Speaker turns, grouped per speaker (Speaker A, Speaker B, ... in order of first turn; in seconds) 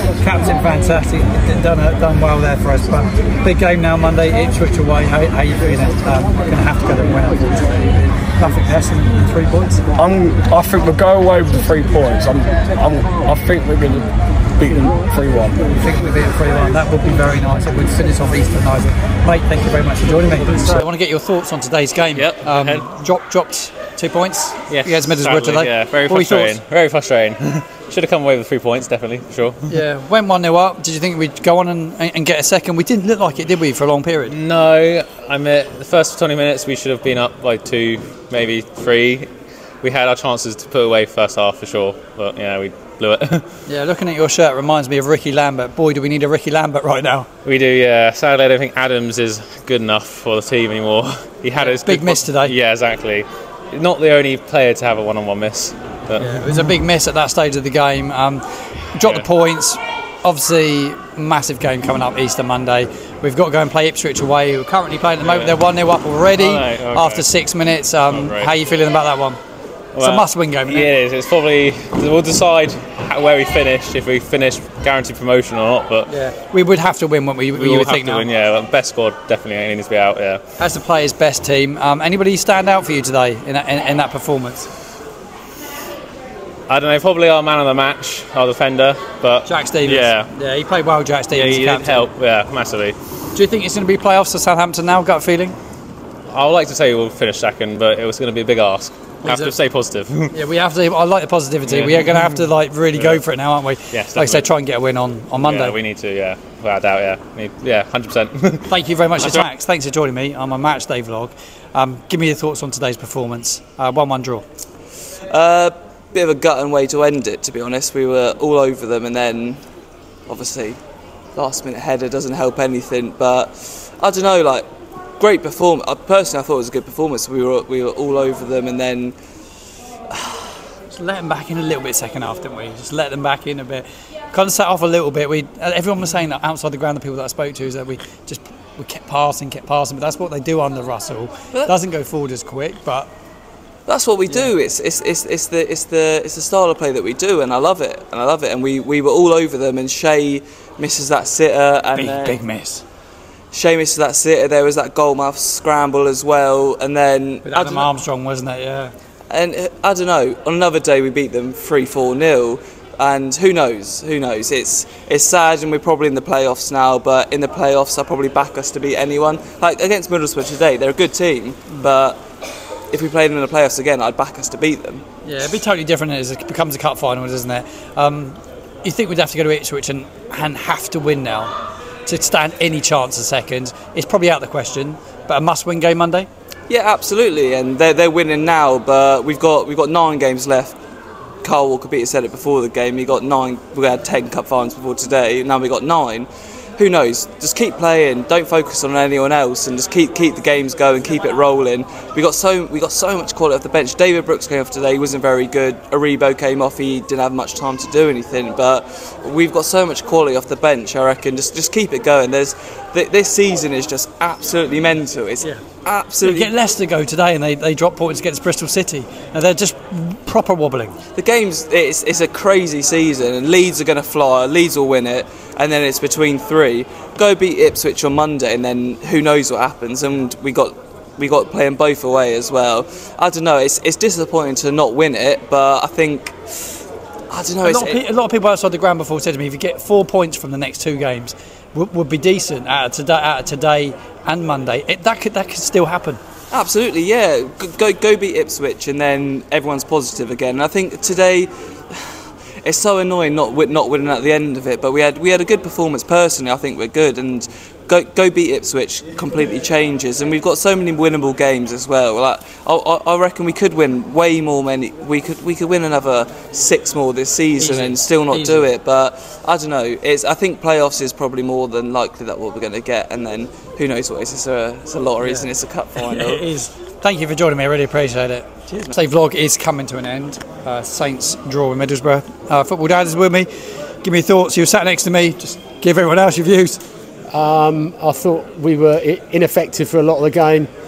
Speaker A: 0.2-9.8, 15.7-26.6, 29.7-34.4, 43.6-47.3, 51.6-52.5, 56.2-69.4, 70.0-70.9, 76.1-78.3, 80.6-84.7, 89.5-92.1, 93.3-95.5, 99.2-99.5, 100.3-105.8, 108.7-114.4, 130.9-143.1, 151.9-152.8, 157.4-158.9, 175.2-181.5, 182.1-186.3, 216.2-221.0, 237.6-246.2, 267.6-268.7, 275.2-283.5, 284.0-286.8
Speaker B: 9.9-15.6
Speaker C: 22.1-22.9, 24.7-29.8, 34.3-43.5, 47.4-56.4, 59.0-59.3, 65.2-65.6, 66.3-67.3, 68.1-68.5, 69.9-76.1, 77.5-80.4, 86.7-90.3, 91.3-93.0, 96.3-100.3, 101.7-103.3, 103.9-104.5, 105.4-109.5
Speaker D: 115.3-119.6, 120.3-120.8, 121.3-124.7, 125.2-129.1, 143.9-152.4, 153.5-157.9, 159.3-172.2, 172.9-175.0, 186.7-190.8, 191.4-216.5, 221.2-236.5, 237.3-238.0, 246.5-252.1, 252.6-276.4
Speaker E: 287.3-290.7